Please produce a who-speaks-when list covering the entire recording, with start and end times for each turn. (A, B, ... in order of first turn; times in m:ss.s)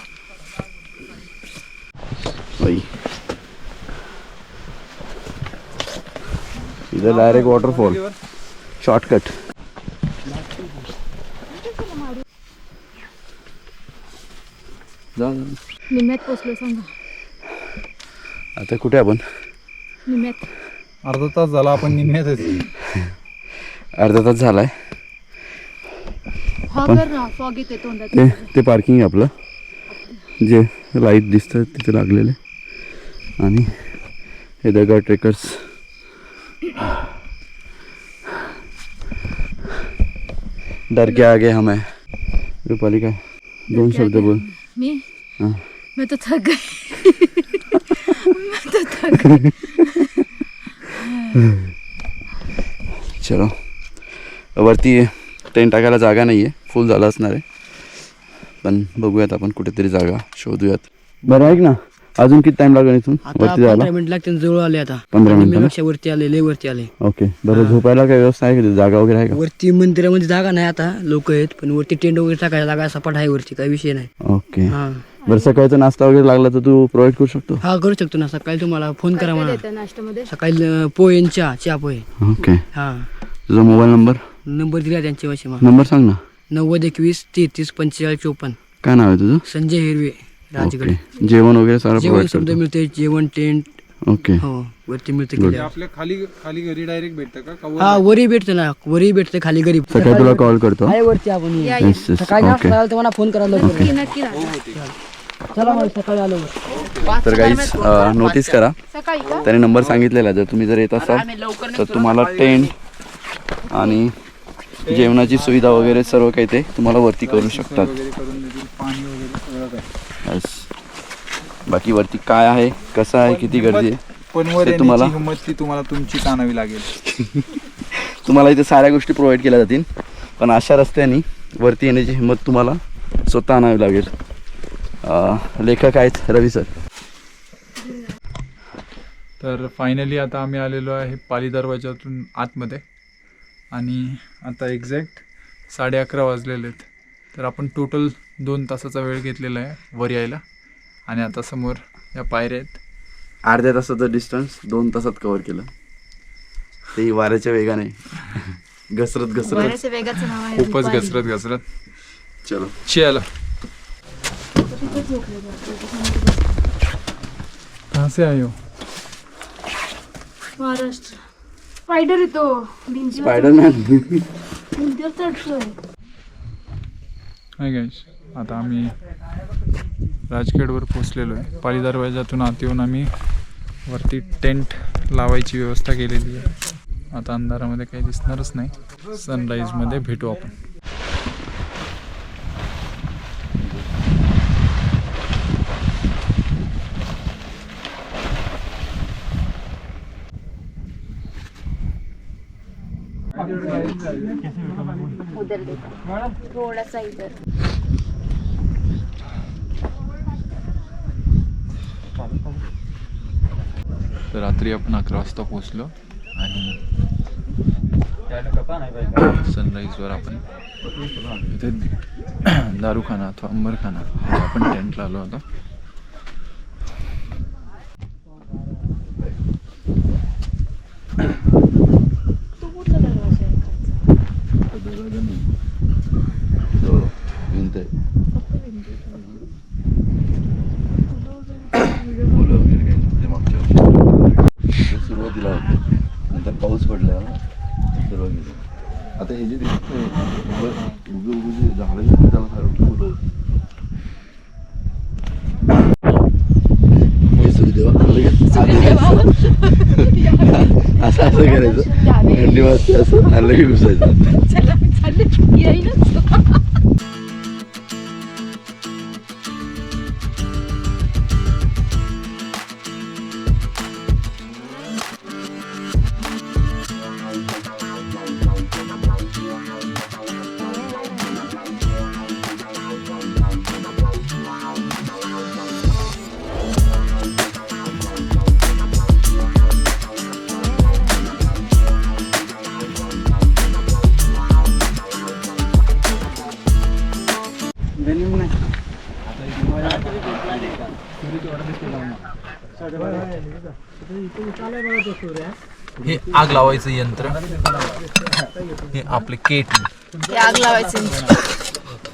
0:02.6-0:02.9 A
0:06.9-0:08.0 A
0:07.0-0:08.2 B
0:08.8-0:09.3 A
0:11.5-0:12.2 C
0:15.2-0:15.6 A
0:15.9-0:16.9 C
0:18.6-0:19.2 A
0:20.0-0:20.5 C
0:21.0-0:22.7 B
0:24.0-0:24.7 A
0:26.7-0:28.5 C
0:26.8-0:27.1 A
0:28.1-0:29.3 A
0:30.4-0:32.4 A
0:33.4-0:33.7 A
0:34.6-0:35.7 A
0:40.9-0:41.9 A
0:41.0-0:41.3 C
0:42.6-0:44.4 A
0:43.7-0:45.0 C
0:46.0-0:50.2 C
0:50.8-0:51.4 C
0:53.2-0:53.6 A
0:54.6-0:57.4 A
0:58.6-1:03.9 A
1:03.2-1:06.9 D
1:05.1-1:05.7 A
1:07.0-1:09.4 A
1:07.5-1:07.8 D
1:09.3-1:14.1 D
1:14.2-1:17.6 A
1:14.7-1:15.0 D
1:15.2-1:15.6 C
1:17.6-1:19.6 D
1:19.1-1:20.3 C
1:20.3-1:22.1 D
1:22.2-1:22.6 A
1:22.6-1:23.1 D
1:23.5-1:24.2 A
1:24.5-1:25.7 D
1:25.6-1:26.2 A
1:26.5-1:28.6 D
1:28.8-1:29.4 A
1:29.5-1:31.0 D
1:30.6-1:32.6 A
1:32.0-1:33.8 D
1:34.0-1:34.4 A
1:34.4-1:35.7 D
1:35.5-1:38.0 B
1:37.8-1:44.0 D
1:39.9-1:41.0 A
1:41.6-1:42.1 C
1:41.8-1:42.8 A
1:43.5-1:44.5 C
1:44.3-1:44.8 B
1:45.5-1:46.5 D
1:45.6-1:45.9 C
1:46.7-1:47.2 B
1:47.2-1:48.8 A
1:48.9-1:49.5 C
1:49.4-1:52.7 A
1:53.7-1:54.1 A
1:54.8-1:55.7 B
1:54.9-1:57.9 A
1:57.2-1:59.9 B
2:00.2-2:00.7 A
2:01.6-2:04.0 A
2:03.2-2:06.9 B
2:04.6-2:05.2 A
2:07.0-2:14.1 A
2:15.0-2:16.7 A
2:19.4-2:22.8 B
2:23.7-2:30.4 B
2:31.1-2:32.8 B
2:33.4-2:35.7 A
2:36.9-2:39.8 A
2:39.4-2:41.2 C
2:40.5-2:41.6 B
2:42.4-2:42.7 A
2:42.8-2:43.2 B
2:44.5-2:46.6 C
2:44.8-2:45.1 A
2:47.9-2:48.6 B
2:50.6-2:51.2 C
2:51.9-2:53.6 C
2:53.2-2:54.3 A
2:54.8-2:55.8 C
2:57.6-2:58.9 B
3:00.3-3:03.1 B
3:03.8-3:06.5 B
3:07.1-3:10.5 B
3:23.4-3:24.4 B
3:25.3-3:27.3 C
3:34.3-3:36.8 B
3:39.2-3:40.4 B
3:41.0-3:41.4 A
3:41.5-3:41.9 B
3:42.4-3:45.4 B
3:52.6-3:54.0 C
3:54.8-3:55.4 B
3:56.8-3:57.9 A
3:58.3-3:59.4 C
4:01.1-4:02.6 C
4:02.3-4:03.9 A
4:04.7-4:05.7 A
4:06.3-4:07.4 A
4:08.0-4:08.6 A
4:09.2-4:13.2 A
4:10.5-4:11.0 C
4:17.3-4:24.2 A
4:18.2-4:26.6 C
4:58.0-4:58.6 B
4:59.6-4:59.9 B
5:01.2-5:02.2 B
5:06.0-5:07.4 B
5:08.9-5:09.9 B
5:10.3-5:11.4 C